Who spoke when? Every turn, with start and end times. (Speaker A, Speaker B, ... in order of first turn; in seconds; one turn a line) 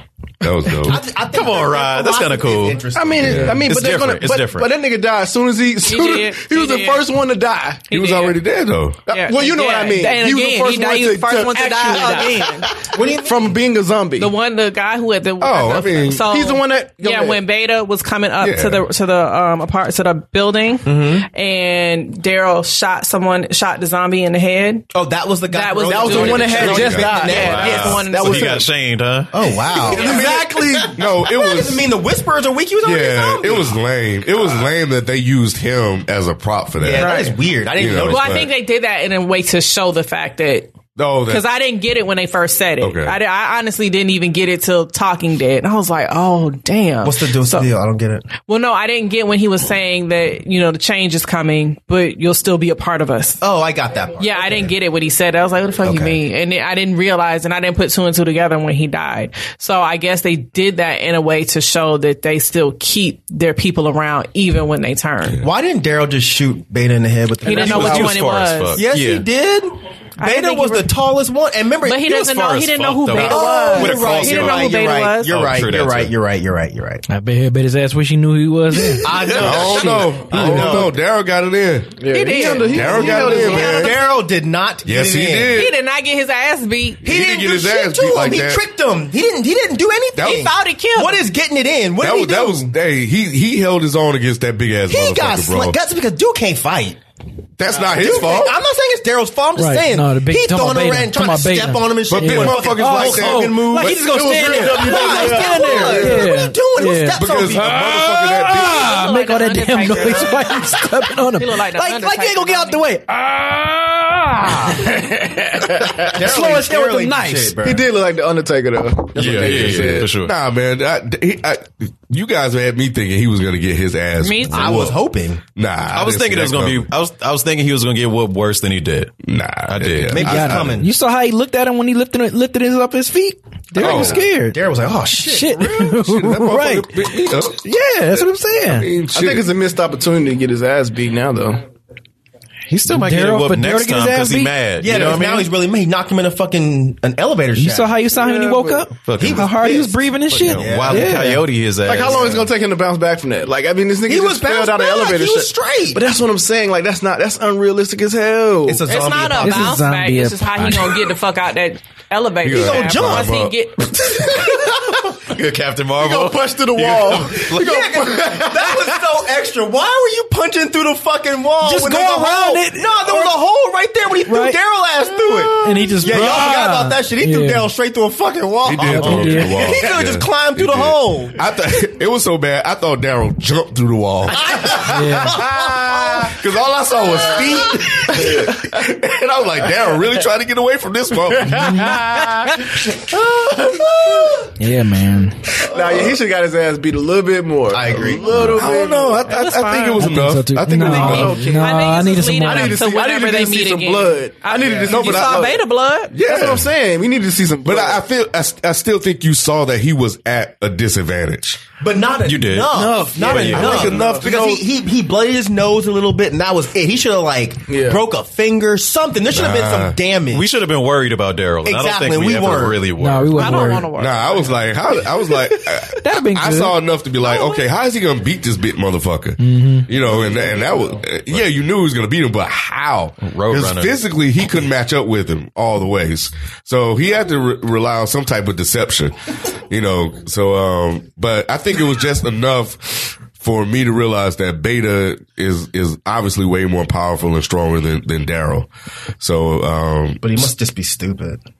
Speaker A: 0.4-1.0
Speaker B: 0.8-3.6
Speaker C: 1.3-4.7
Speaker D: 3.0-7.9
Speaker A: 3.2-3.6
Speaker E: 5.8-7.1
Speaker E: 7.9-8.4
Speaker A: 7.9-9.1
Speaker E: 9.1-12.8
Speaker D: 9.1-14.3
Speaker B: 12.9-13.6
Speaker E: 14.2-24.9
Speaker A: 15.4-16.2
Speaker D: 16.2-17.4
Speaker A: 18.4-18.8
Speaker B: 20.9-21.3
Speaker B: 24.9-27.9
Speaker E: 25.5-28.7
Speaker D: 25.9-28.7
Speaker A: 26.4-27.1
Speaker C: 27.0-30.1
Speaker B: 29.3-33.8
Speaker D: 29.8-31.0
Speaker A: 30.9-31.8
Speaker A: 32.8-37.1
Speaker B: 36.8-38.4
Speaker E: 36.9-37.4
Speaker A: 37.8-38.5
Speaker E: 38.0-47.7
Speaker A: 41.0-41.4
Speaker A: 42.8-43.2
Speaker B: 47.0-48.2
Speaker E: 48.4-53.4
Speaker B: 53.4-54.7
Speaker E: 54.2-65.4
Speaker B: 55.8-56.2
Speaker B: 65.4-68.2
Speaker E: 67.4-68.8
Speaker C: 67.4-69.2
Speaker B: 68.8-72.2
Speaker E: 70.2-70.9
Speaker E: 71.8-75.3
Speaker C: 72.1-76.1
Speaker B: 73.1-77.0
Speaker F: 77.1-79.1
Speaker B: 79.0-81.0
Speaker C: 79.3-79.8
Speaker A: 79.3-82.0
Speaker D: 80.4-80.8
Speaker D: 82.0-84.0
Speaker E: 82.1-83.9
Speaker A: 82.6-83.9
Speaker B: 83.0-85.6
Speaker A: 84.8-85.8
Speaker E: 85.5-87.2
Speaker A: 87.0-88.6
Speaker B: 87.0-92.7
Speaker A: 90.2-90.4
Speaker E: 90.2-91.2
Speaker A: 92.0-95.8
Speaker B: 94.9-97.0
Speaker A: 97.6-98.5
Speaker B: 97.9-108.1
Speaker F: 99.6-111.6
Speaker A: 102.1-104.0
Speaker D: 104.0-106.3
Speaker A: 107.1-108.9
Speaker E: 108.5-112.9
Speaker B: 111.8-113.0
Speaker F: 113.1-115.4
Speaker D: 115.6-116.1
Speaker F: 116.0-117.6
Speaker B: 116.0-117.9
Speaker D: 117.6-120.1
Speaker C: 119.2-120.3
Speaker A: 119.5-125.0
Speaker E: 124.2-124.9
Speaker B: 124.5-125.4
Speaker A: 125.5-126.9
Speaker C: 125.9-130.4
Speaker A: 129.2-130.8
Speaker B: 130.1-130.9
Speaker F: 130.2-134.6
Speaker B: 133.8-136.0
Speaker A: 133.8-134.2
Speaker F: 135.2-138.9
Speaker A: 135.8-137.7
Speaker A: 138.7-139.5
Speaker D: 139.1-141.6
Speaker C: 142.7-145.5
Speaker F: 142.9-144.6
Speaker B: 144.8-148.0
Speaker D: 144.9-145.2
Speaker F: 147.6-151.5
Speaker D: 148.1-148.9
Speaker C: 149.1-149.5
Speaker B: 149.2-151.1
Speaker C: 150.4-152.5
Speaker D: 151.9-158.9
Speaker B: 152.1-152.4
Speaker B: 154.1-156.0
Speaker B: 158.7-159.8
Speaker E: 158.9-164.4
Speaker F: 159.4-161.0
Speaker A: 162.4-163.5
Speaker B: 162.5-163.4
Speaker B: 164.1-165.1
Speaker C: 165.1-167.8
Speaker D: 166.0-169.0
Speaker B: 167.5-181.4
Speaker F: 171.6-173.4
Speaker F: 174.3-174.6
Speaker D: 175.5-176.1
Speaker F: 175.6-177.7
Speaker A: 178.6-184.9
Speaker F: 178.8-179.6
Speaker B: 184.3-186.4
Speaker F: 184.8-185.4
Speaker A: 186.2-192.1
Speaker B: 187.1-188.4
Speaker D: 188.1-188.7
Speaker D: 191.3-194.4
Speaker F: 191.6-192.0
Speaker B: 193.5-194.5
Speaker F: 194.6-195.5
Speaker D: 195.6-199.3
Speaker A: 195.7-196.2
Speaker B: 197.7-198.6
Speaker A: 198.3-201.4
Speaker E: 199.3-200.1
Speaker F: 200.0-202.8
Speaker D: 200.9-205.6
Speaker E: 200.9-206.1
Speaker A: 204.9-205.5
Speaker A: 206.1-206.7
Speaker D: 206.2-208.0
Speaker A: 207.6-211.7
Speaker B: 211.8-220.5
Speaker C: 212.2-213.9
Speaker D: 212.7-214.6
Speaker A: 213.4-214.3
Speaker D: 217.7-218.0
Speaker A: 219.3-220.0
Speaker C: 220.3-223.8
Speaker B: 221.7-222.8
Speaker F: 223.0-223.9
Speaker E: 223.3-224.6
Speaker A: 224.0-239.2
Speaker F: 226.0-226.8
Speaker B: 227.2-227.6
Speaker F: 229.4-229.9
Speaker C: 233.2-234.0
Speaker A: 239.7-248.7
Speaker A: 249.2-250.5
Speaker B: 250.2-251.4